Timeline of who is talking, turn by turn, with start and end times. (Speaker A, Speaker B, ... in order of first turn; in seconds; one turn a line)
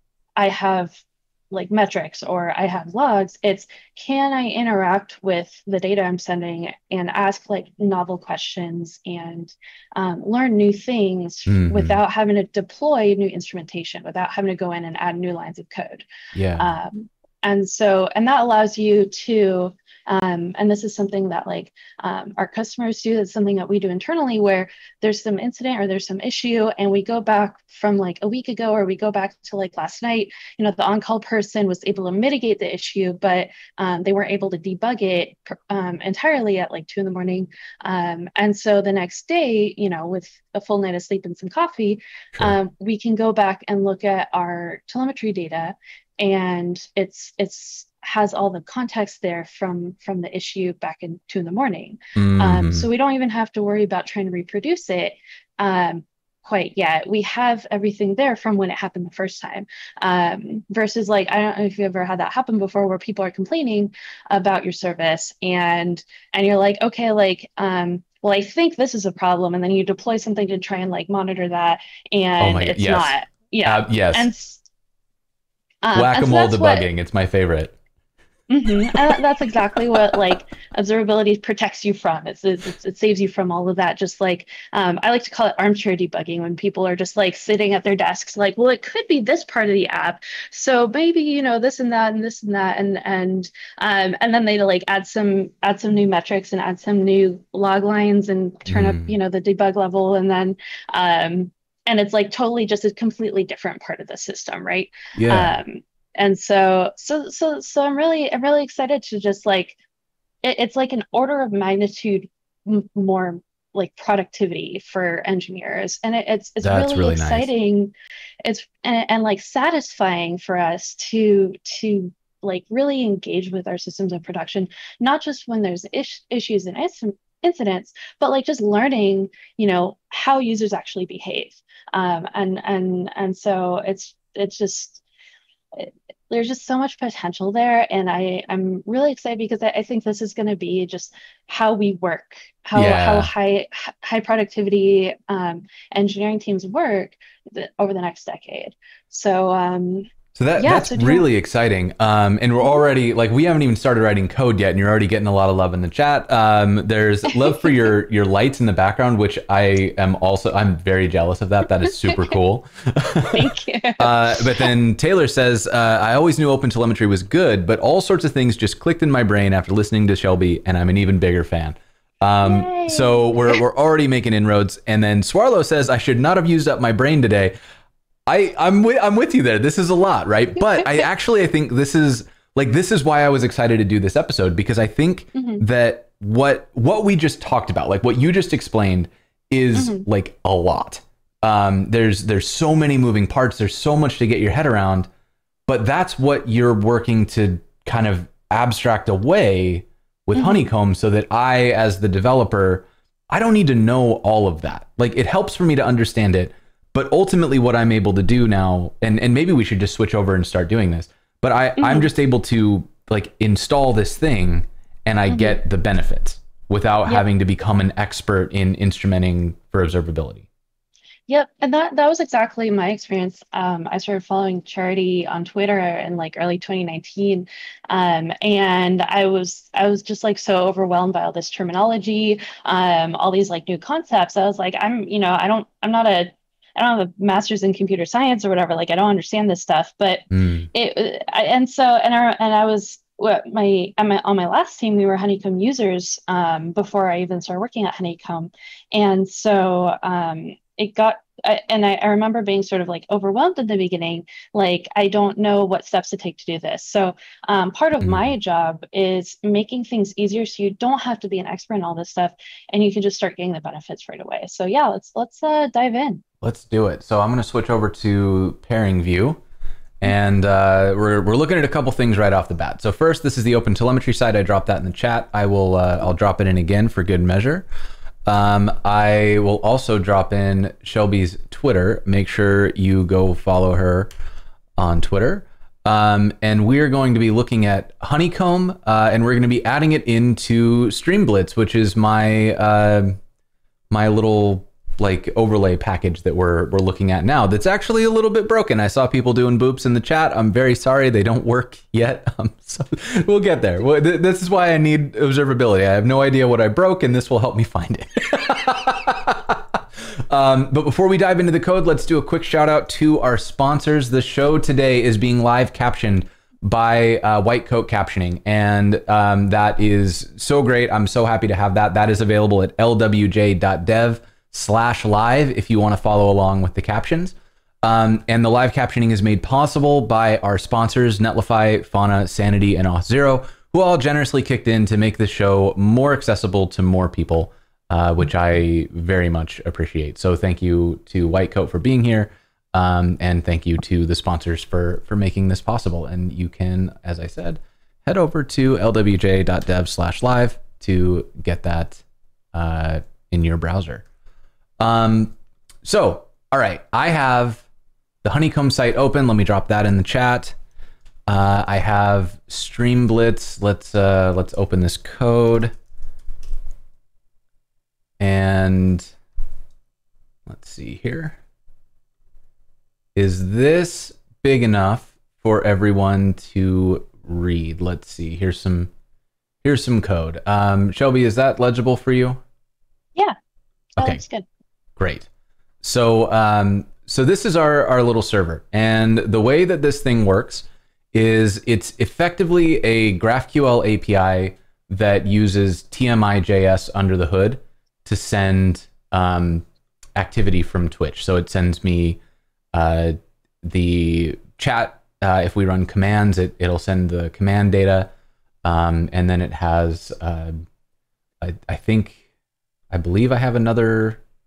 Speaker A: 0.4-16.1
Speaker B: 11.5-12.0
Speaker B: 16.3-16.8
Speaker A: 16.6-74.6
Speaker B: 52.2-52.9
Speaker B: 72.4-74.3
Speaker A: 75.8-76.9
Speaker B: 75.9-77.8
Speaker A: 78.5-109.8
Speaker B: 98.7-99.2
Speaker B: 105.2-105.5
Speaker A: 110.4-135.0
Speaker B: 116.6-117.5
Speaker A: 135.7-151.3
Speaker B: 142.7-143.3
Speaker B: 150.3-177.5
Speaker A: 163.3-164.7
Speaker A: 172.4-173.6
Speaker B: 178.3-195.1
Speaker A: 185.3-185.7
Speaker A: 189.8-190.1
Speaker B: 195.7-220.5
Speaker A: 200.3-200.7
Speaker A: 211.8-212.1
Speaker A: 215.3-215.6
Speaker A: 221.3-266.2
Speaker B: 240.3-240.7
Speaker B: 258.0-258.3
Speaker B: 266.4-269.4
Speaker B: 270.0-277.7
Speaker B: 278.3-284.1
Speaker B: 284.8-293.2
Speaker B: 293.9-354.1
Speaker B: 354.8-357.7
Speaker B: 358.2-360.6
Speaker B: 361.3-365.7
Speaker B: 368.2-369.1
Speaker B: 370.5-371.4
Speaker B: 373.1-378.9
Speaker B: 379.6-382.4
Speaker B: 384.0-384.2
Speaker A: 384.0-384.5
Speaker B: 385.0-385.3
Speaker B: 385.8-402.2
Speaker B: 402.7-408.1
Speaker B: 408.6-410.6
Speaker B: 411.4-412.2
Speaker B: 412.9-414.2